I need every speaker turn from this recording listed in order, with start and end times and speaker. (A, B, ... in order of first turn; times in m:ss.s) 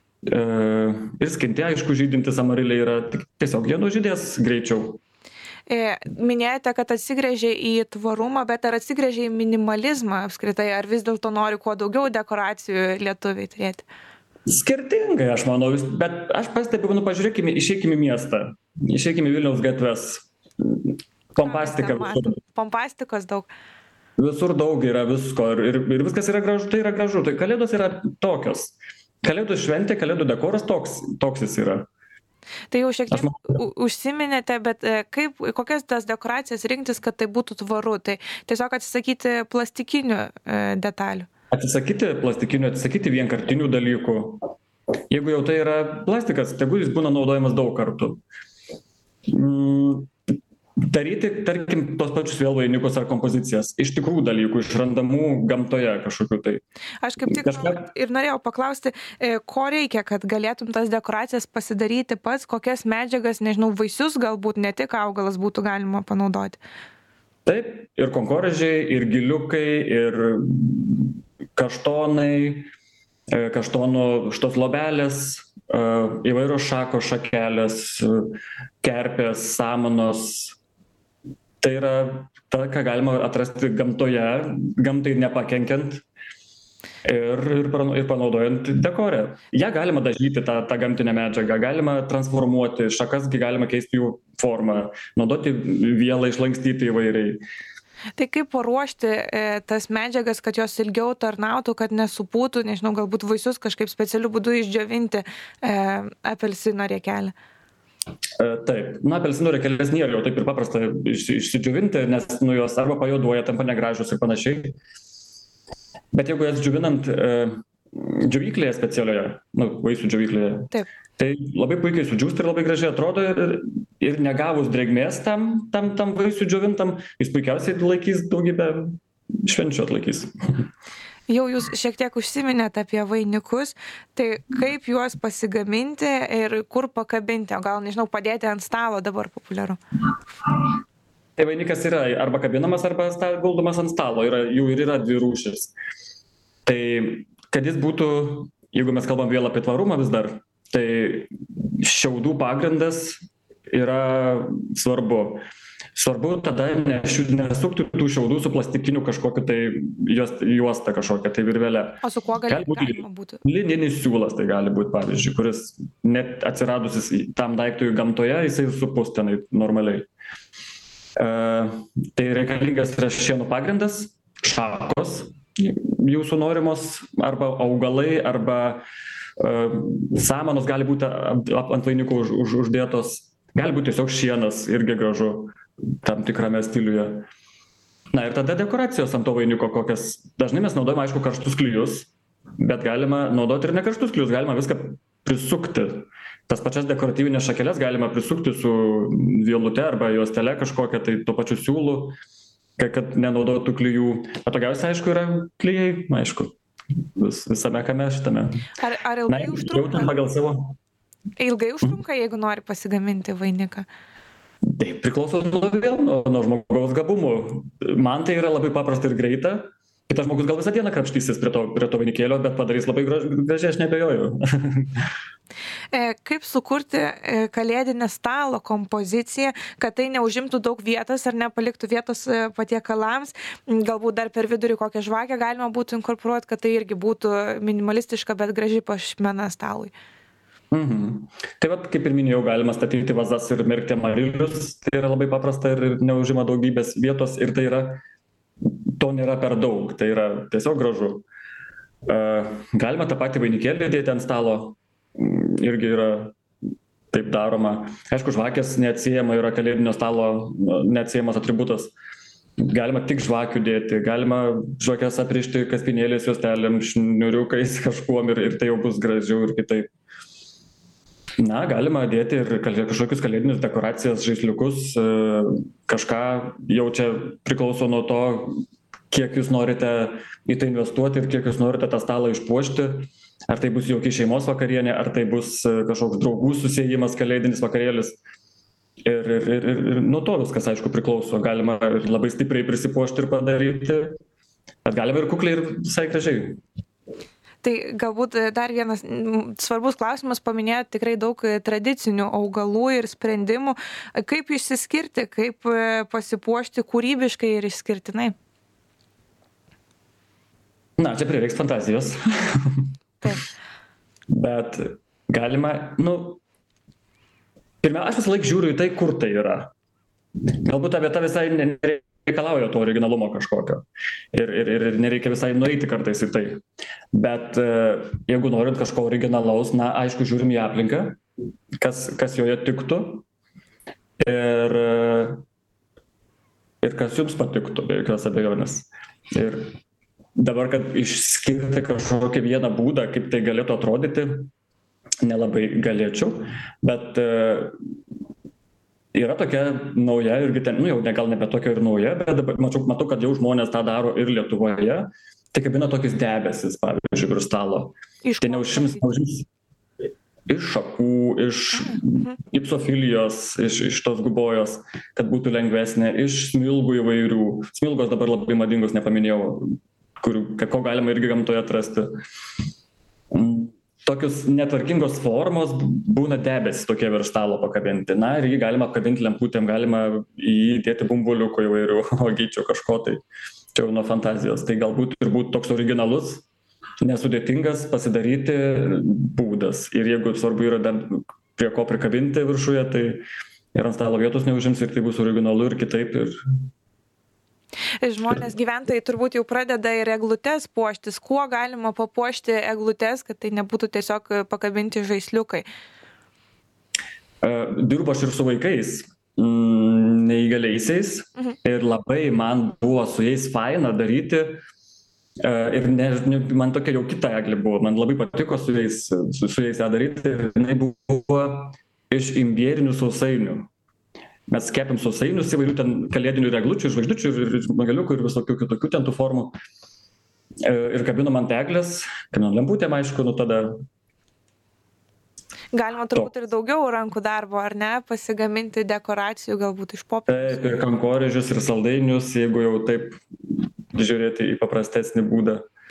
0:00.3-0:05.0 A
0:05.7-0:13.9 B
0:14.5-0:22.4 A
0:21.4-0:23.5 B
0:24.2-0:31.9 A
0:32.7-0:41.3 B
0:33.1-0:33.5 A
0:41.5-0:44.5 A
0:45.1-0:48.2 A
0:49.3-0:50.1 A
0:50.8-0:56.6 A
0:57.0-1:06.6 B
0:57.3-0:57.8 A
1:07.5-1:12.7 A
1:13.3-1:20.6 A
1:21.6-1:26.0 A
1:27.0-1:37.4 A
1:38.2-1:47.3 B
1:48.4-1:54.8 A
1:56.1-2:10.3 A
2:11.3-2:19.8 B
2:21.4-2:25.7 A
2:26.6-2:33.2 A
2:33.7-2:35.4 A
2:36.0-2:50.1 A
2:42.0-2:43.4 B
2:51.2-2:58.8 A
2:59.4-3:07.3 A
3:08.1-3:22.2 A
3:22.8-3:26.5 A
3:27.2-3:28.6 A
3:28.8-3:30.1 B
3:29.3-3:30.8 A
3:31.4-3:33.9 B
3:34.6-3:45.1 A
3:45.9-3:59.9 B
4:00.7-4:08.0 A
4:08.6-4:11.2 A
4:12.1-4:16.3 A
4:17.1-4:21.9 A
4:22.6-4:29.9 A
4:31.4-4:48.2 A
4:49.0-4:54.1 A
4:54.8-4:56.6 A
4:57.6-5:08.4 B
5:11.0-5:12.9 A
5:14.3-5:16.4 A
5:17.8-5:19.7 A
5:20.6-5:26.6 A
5:27.1-5:31.2 A
5:31.8-5:33.2 A
5:34.2-5:35.4 A
5:36.8-5:39.7 A
5:40.4-5:44.5 A
5:45.2-5:47.7 A
5:49.1-5:59.5 A
5:58.2-5:59.0 B
6:00.5-6:12.1 A
6:01.7-6:02.4 B
6:13.3-6:23.2 A
6:23.8-6:26.4 A
6:27.0-6:33.2 A
6:33.8-6:36.4 A
6:38.0-6:45.6 B
6:47.4-6:54.6 A
6:55.4-7:03.7 A
7:04.5-7:09.6 A
7:10.6-7:13.7 A
7:15.7-7:20.8 B
7:20.3-7:25.6 A